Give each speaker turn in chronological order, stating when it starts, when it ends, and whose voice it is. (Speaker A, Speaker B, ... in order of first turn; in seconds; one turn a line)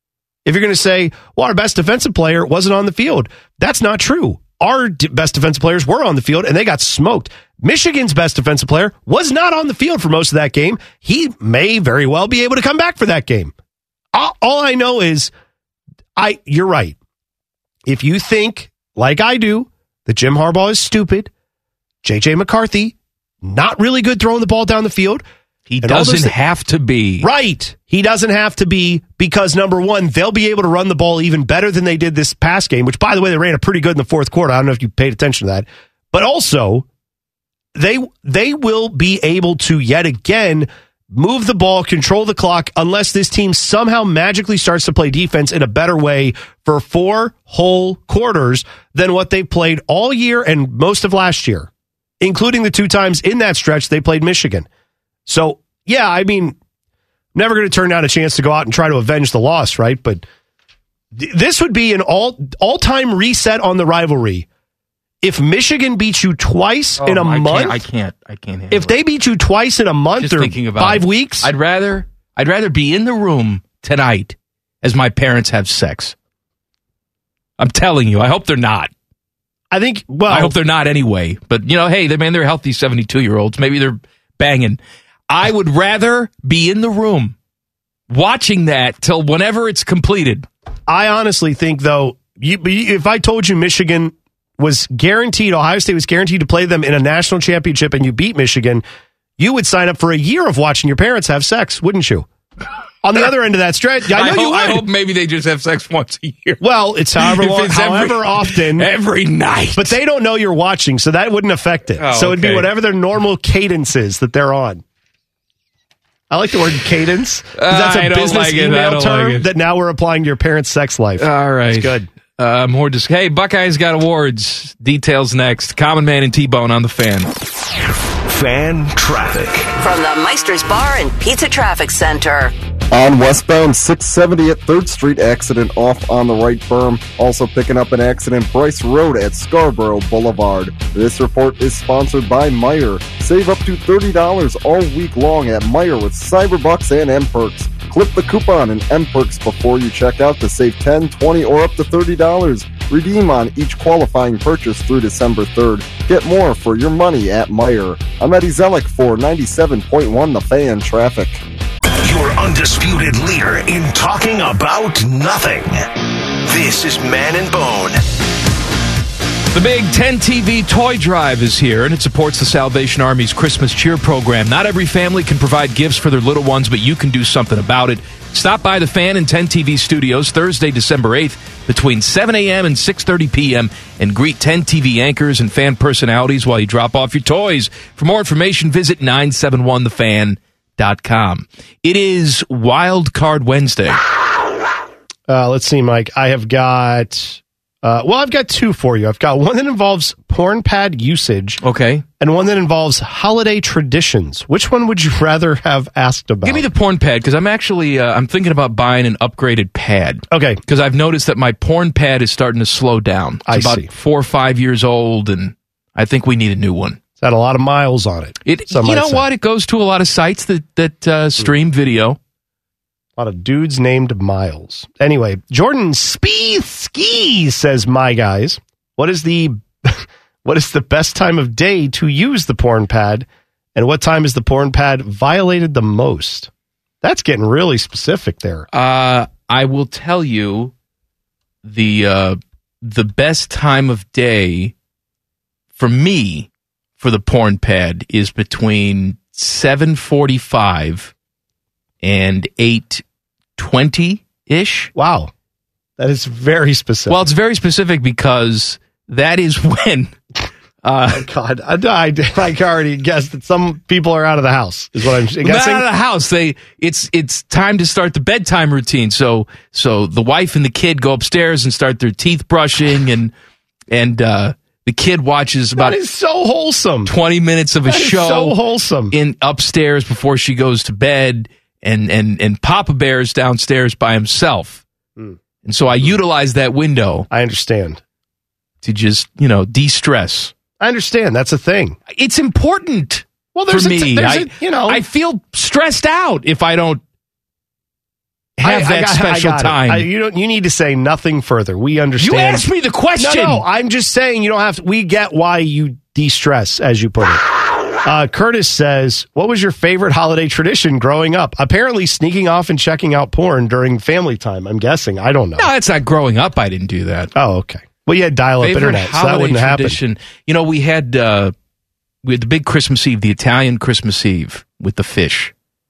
Speaker A: 0.4-13.5
Speaker A: 14.1-15.3
Speaker A: 16.1-16.9
Speaker A: 17.8-21.3
Speaker A: 22.0-25.2
Speaker B: 25.7-27.3
Speaker A: 25.8-26.3
Speaker A: 27.2-36.9
Speaker A: 37.7-51.7
Speaker A: 52.2-54.7
Speaker A: 55.2-56.6
Speaker A: 57.3-60.2
Speaker A: 61.1-64.5
Speaker A: 65.2-67.8
Speaker B: 67.0-69.0
Speaker A: 68.7-71.5
Speaker B: 70.2-76.1
Speaker B: 77.6-78.9
Speaker A: 79.7-80.5
Speaker B: 80.3-87.3
Speaker B: 88.1-90.5
Speaker A: 90.9-98.8
Speaker A: 99.4-102.3
Speaker A: 103.0-104.8
Speaker B: 104.1-106.6
Speaker A: 106.6-108.9
Speaker B: 107.2-110.0
Speaker A: 109.7-114.8
Speaker B: 112.0-112.7
Speaker A: 116.3-122.1
Speaker B: 117.5-119.5
Speaker B: 121.2-127.3
Speaker C: 128.2-129.7
Speaker D: 129.8-132.5
Speaker E: 132.9-161.4
Speaker C: 162.0-165.9
Speaker C: 166.4-168.0
Speaker B: 169.5-194.0
Speaker A: 195.3-201.6
Speaker B: 201.6-202.0
Speaker A: 202.2-206.7
Speaker B: 206.4-217.0
Speaker A: 210.3-210.6
Speaker A: 213.5-213.9
Speaker A: 217.2-219.3
Speaker B: 218.4-222.2
Speaker A: 223.2-236.5
Speaker A: 237.0-238.7
Speaker B: 238.7-240.7
Speaker B: 241.6-244.7
Speaker B: 245.8-251.1
Speaker B: 252.0-253.0
Speaker B: 253.6-254.9
Speaker A: 254.9-255.3
Speaker A: 256.0-257.3
Speaker B: 257.1-260.1
Speaker B: 260.8-261.2
Speaker A: 261.1-265.9
Speaker B: 265.4-273.3
Speaker B: 273.9-276.0
Speaker A: 275.8-277.1
Speaker B: 277.0-278.6
Speaker A: 277.9-279.1
Speaker B: 279.1-284.8
Speaker B: 285.6-287.3
Speaker A: 287.3-288.0
Speaker B: 288.8-290.5
Speaker A: 290.8-292.0
Speaker B: 292.1-297.0
Speaker A: 293.5-295.0
Speaker A: 298.6-302.6
Speaker B: 298.6-300.1
Speaker B: 302.2-303.6
Speaker A: 303.2-307.4
Speaker A: 308.0-315.7
Speaker B: 315.6-317.3
Speaker A: 317.3-320.0
Speaker B: 318.6-321.5
Speaker B: 322.2-325.5